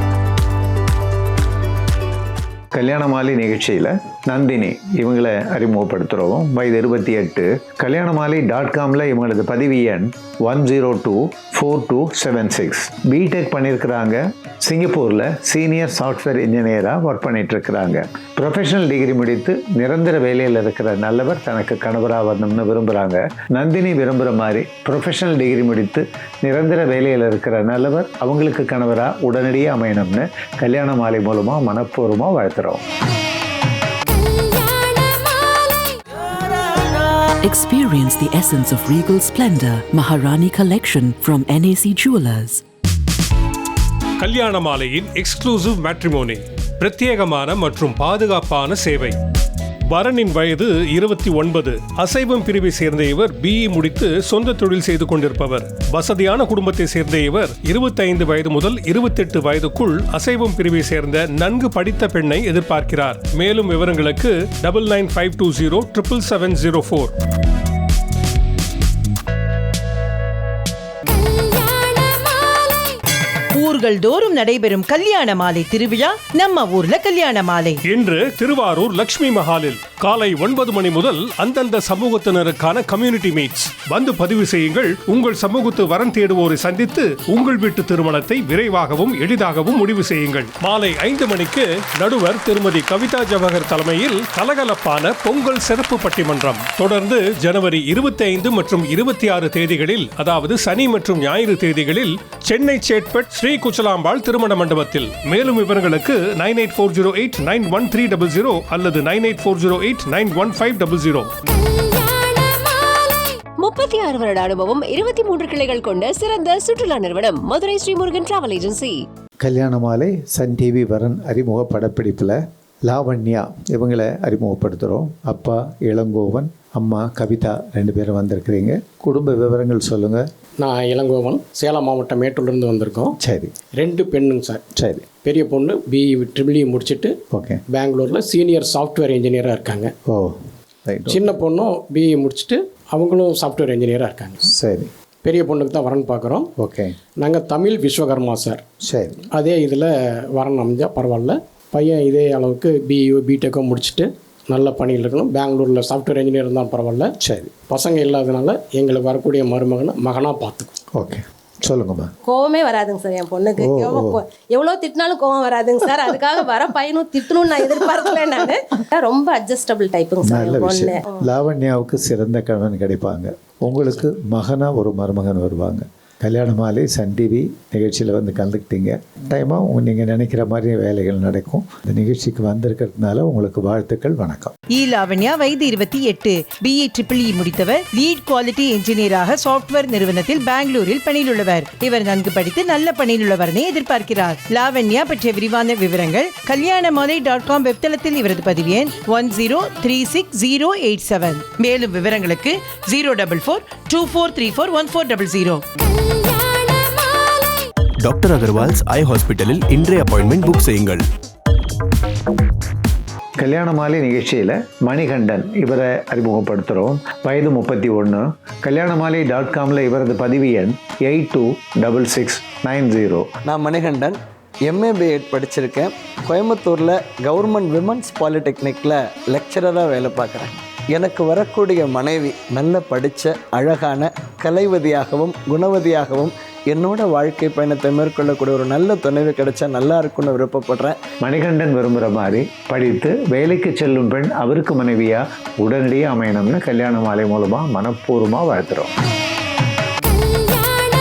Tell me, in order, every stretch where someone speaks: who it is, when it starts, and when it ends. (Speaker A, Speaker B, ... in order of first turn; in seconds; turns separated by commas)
Speaker A: 2.7-32.8, Speaker B: 37.4-42.6, Speaker C: 44.2-49.2, Speaker C: 49.9-67.1, Speaker D: 73.5-77.8, Speaker C: 77.9-111.3, Speaker E: 113.6-119.0, Speaker A: 119.4-130.2, Speaker F: 130.6-133.1, Speaker A: 133.2-133.5, Speaker F: 133.8-134.6, Speaker A: 134.8-135.1, Speaker F: 135.2-137.1, Speaker A: 137.3-137.6, Speaker F: 137.7-139.9, Speaker A: 140.1-140.3, Speaker A: 140.8-141.3, Speaker F: 141.1-144.4, Speaker A: 144.5-144.9, Speaker F: 145.2-146.5, Speaker A: 146.6-147.0, Speaker F: 147.2-148.6, Speaker A: 148.9-149.2, Speaker F: 149.3-157.1, Speaker A: 157.2-157.5, Speaker F: 157.7-160.7, Speaker A: 161.0-162.1, Speaker G: 162.2-171.2, Speaker A: 163.6-164.1, Speaker A: 170.2-184.5, Speaker D: 184.7-205.6, Speaker H: 208.0-211.1, Speaker A: 213.4-223.3, Speaker I: 223.4-241.0, Speaker A: 241.2-248.9